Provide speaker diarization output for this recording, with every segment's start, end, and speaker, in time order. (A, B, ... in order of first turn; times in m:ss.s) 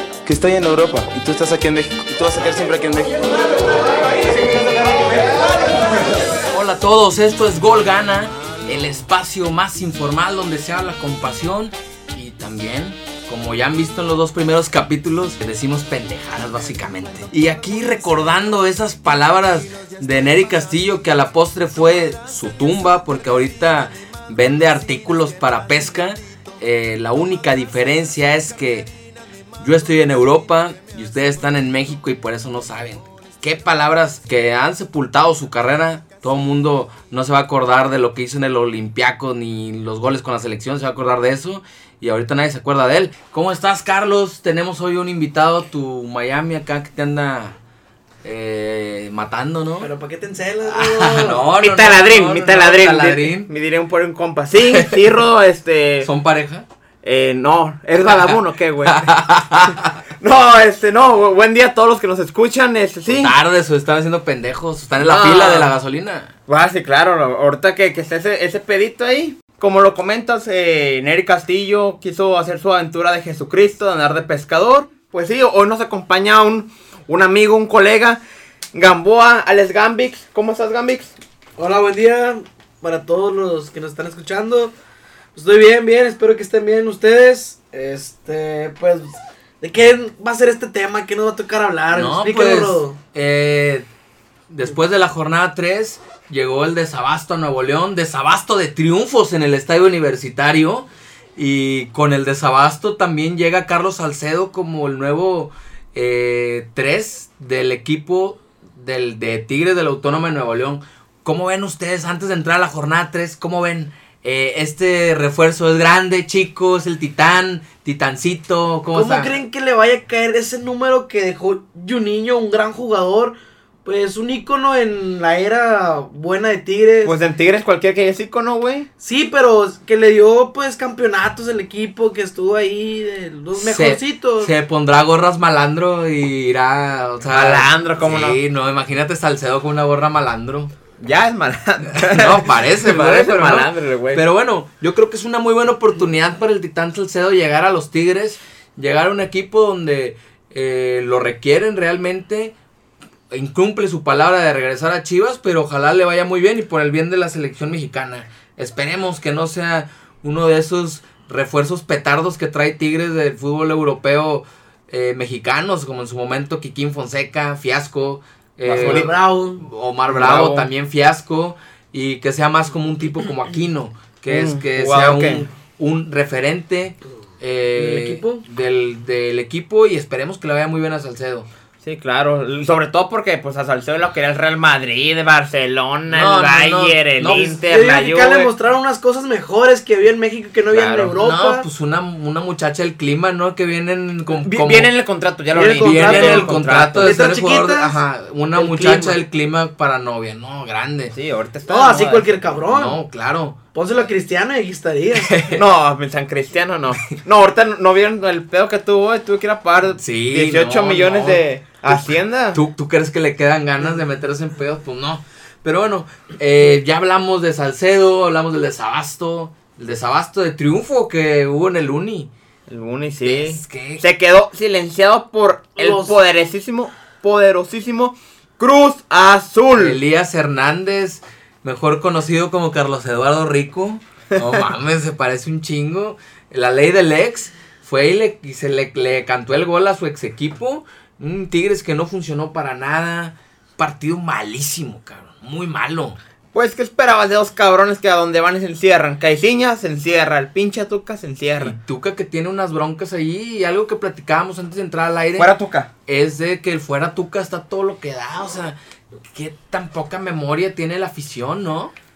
0:00.2-0:05.8 A
0:06.4-0:28.9 B
0:29.6-0:47.6 B
0:48.2-0:49.9 B
0:49.8-0:51.4 C
0:50.6-0:53.5 B
0:51.6-0:56.1 D
0:54.7-0:55.0 B
0:56.0-0:56.6 B
0:57.0-0:59.1 D
0:58.8-0:59.9 B
1:00.2-1:03.3 D
1:03.1-1:06.3 B
1:05.0-1:05.8 D
1:06.5-1:18.2 D
1:18.7-1:21.1 D
1:21.6-1:24.7 C
1:25.3-1:33.0 C
1:31.9-1:33.8 B
1:34.5-1:59.3 B
1:58.9-2:07.1 C
2:07.0-2:08.9 D
2:09.0-2:14.5 C
2:13.6-2:20.7 B
2:17.3-2:18.4 D
2:21.0-2:24.2 D
2:22.0-2:32.5 B
2:33.3-3:01.5 B
2:48.6-2:49.1 D
2:48.7-2:49.6 C
2:50.1-2:50.7 D
2:54.3-2:55.4 D
2:57.7-2:58.4 C
3:01.8-3:08.5 D
3:06.1-3:07.6 B
3:07.3-3:11.7 C
3:10.7-3:11.1 D
3:11.2-3:14.9 B
3:14.4-3:17.2 D
3:15.5-3:18.0 C
3:15.7-3:21.1 B
3:18.5-3:19.2 C
3:21.1-3:22.5 D
3:21.7-3:23.0 C
3:22.7-3:23.6 B
3:23.7-3:25.4 C
3:25.2-3:25.6 B
3:25.5-3:32.6 D
3:30.0-3:42.3 B
3:42.7-3:50.0 D
3:43.2-3:44.0 B
3:45.8-3:46.2 C
3:49.8-4:06.2 B
4:06.5-4:11.8 D
4:11.6-4:15.5 B
4:15.4-4:15.9 D
4:16.1-4:18.8 B
4:19.3-4:21.9 B